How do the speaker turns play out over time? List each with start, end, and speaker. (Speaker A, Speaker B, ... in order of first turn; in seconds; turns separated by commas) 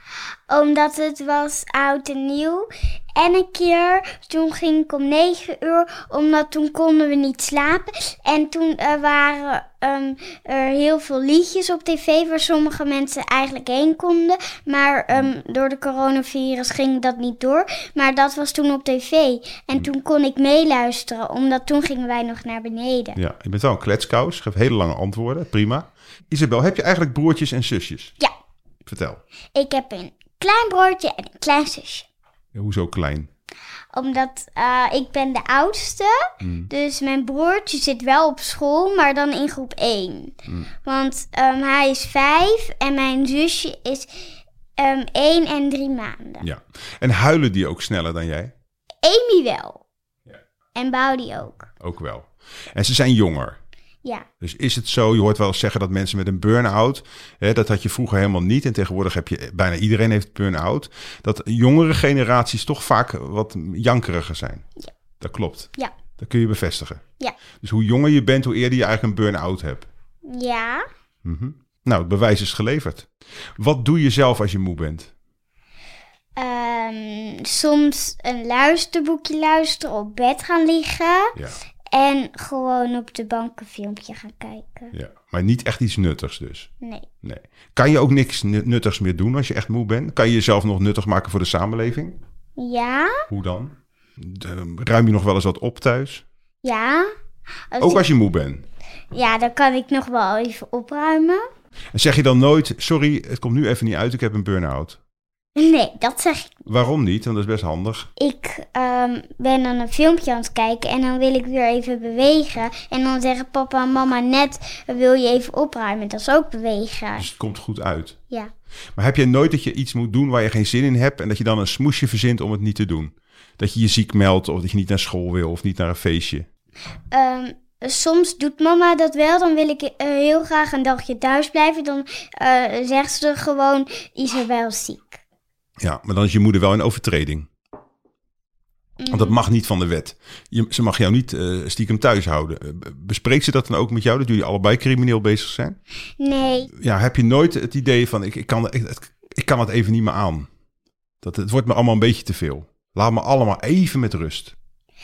Speaker A: 0.5-23.2, Speaker B: 23.1-28.1, Speaker B: 28.8-29.2, Speaker A: 29.5-32.1, Speaker B: 32.5-33.3, Speaker A: 33.9-44.1, Speaker B: 36.4-36.7, Speaker A: 44.8-46.4, Speaker B: 46.4-48.5, Speaker A: 49.0-49.8, Speaker A: 50.7-51.7, Speaker B: 51.8-53.6, Speaker B: 54.4-64.6, Speaker B: 65.2-67.0, Speaker B: 67.6-69.9, Speaker A: 70.3-70.8, Speaker B: 71.2-75.1, Speaker A: 76.4-81.3, Speaker B: 81.3-81.6, Speaker A: 81.9-84.9, Speaker B: 84.9-86.7, Speaker A: 86.8-87.1, Speaker B: 87.2-92.2, Speaker A: 92.6-93.2, Speaker B: 93.3-96.2, Speaker A: 96.6-97.1, Speaker A: 97.7-98.1, Speaker B: 97.8-98.6, Speaker A: 99.1-101.4, Speaker B: 101.9-105.0, Speaker A: 105.5-106.6, Speaker B: 106.7-108.1, Speaker A: 108.2-117.3, Speaker B: 117.2-118.2, Speaker B: 119.0-126.5, Speaker A: 127.1-135.2, Speaker B: 135.8-137.5, Speaker A: 139.0-139.4, Speaker B: 139.1-145.8, Speaker A: 146.2-146.7, Speaker B: 146.7-150.5, Speaker B: 151.2-154.5